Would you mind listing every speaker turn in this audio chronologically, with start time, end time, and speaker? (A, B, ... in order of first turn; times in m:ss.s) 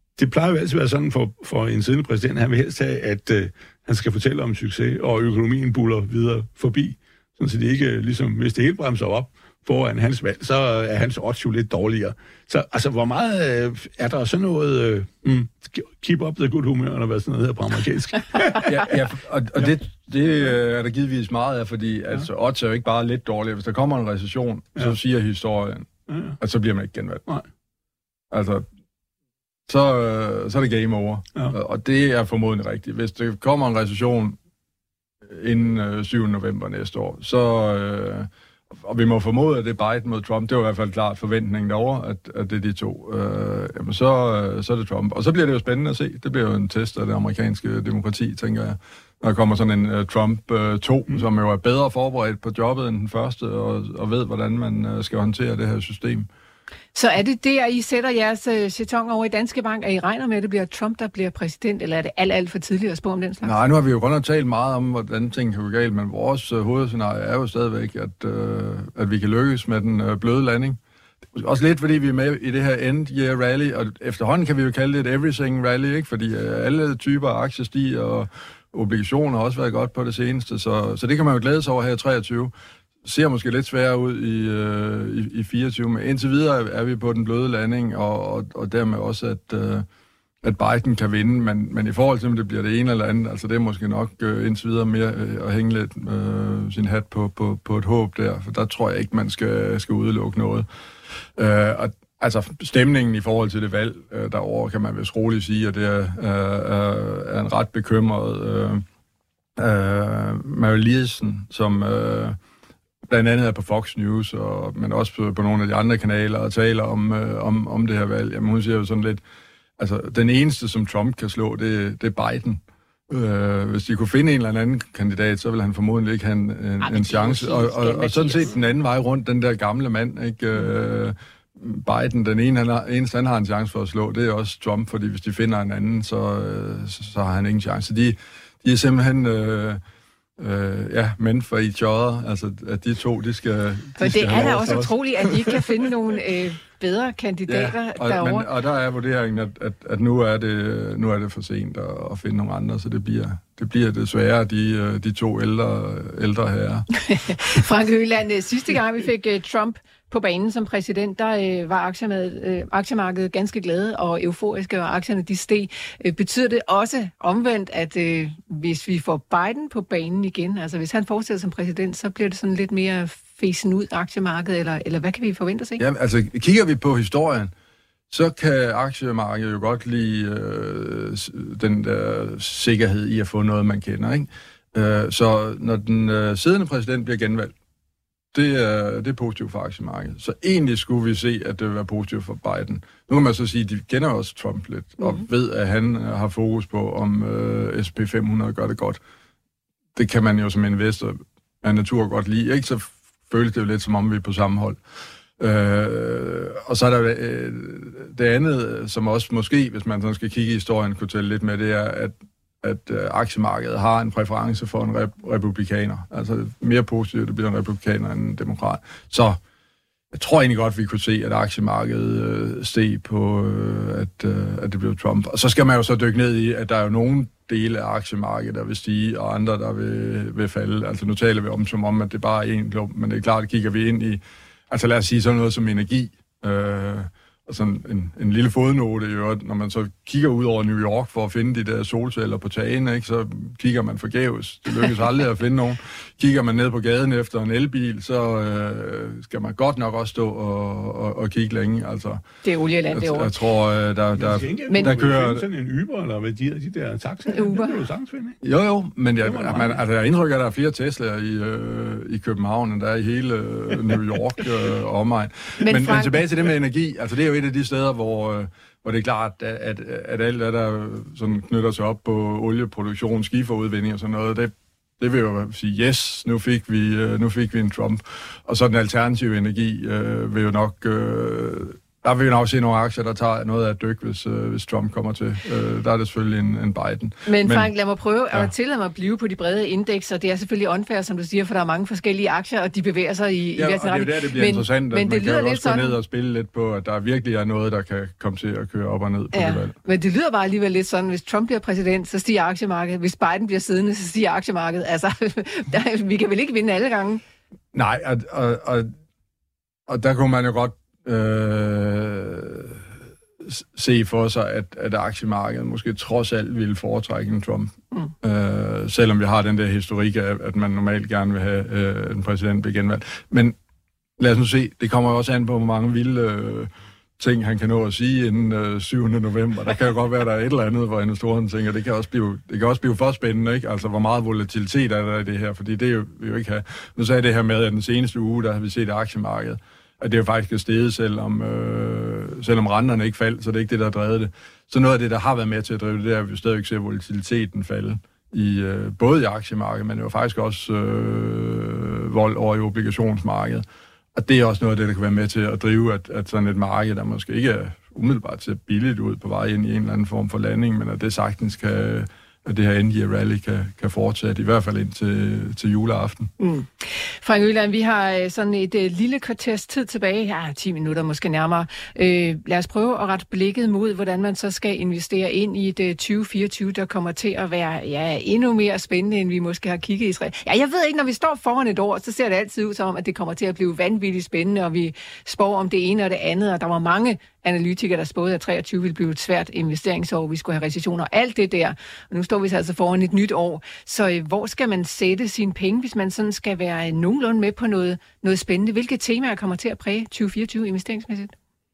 0:00.2-0:18.9 A
0:18.5-0:25.9 B
0:26.1-0:26.4 A
0:26.4-0:27.2 B
0:28.3-0:28.6 B
0:29.7-0:34.4 B
0:35.3-0:56.3 B
0:56.9-1:03.6 C
1:03.4-1:10.8 B
1:11.3-1:22.5 B
1:23.0-1:29.8 B
1:30.4-1:40.6 B
1:41.4-1:48.8 B
1:49.6-1:52.4 B
1:53.1-1:59.2 B
1:59.8-2:19.8 B
2:06.8-2:08.6 C
2:20.4-2:25.6 B
2:24.0-2:28.5 C
2:27.5-2:36.9 B
2:37.0-2:55.8 C
2:55.8-2:57.5 B
2:58.1-3:07.5 B
3:08.3-3:19.0 B
3:19.9-3:24.8 B
3:25.4-3:39.4 B
3:40.1-4:12.2 B
4:12.4-4:13.3 C
4:12.9-4:15.4 B
4:14.2-4:18.4 A
4:17.3-4:17.8 C
4:18.4-4:47.7 B
4:19.2-4:19.8 A
4:25.6-4:26.2 C
4:47.2-4:56.0 C
4:53.6-4:59.7 B
4:59.3-5:07.2 C
5:07.7-5:08.9 B
5:09.9-5:12.8 B
5:13.4-5:23.6 B
5:24.2-5:53.6 B
5:54.1-6:06.3 B
6:06.4-6:41.3 C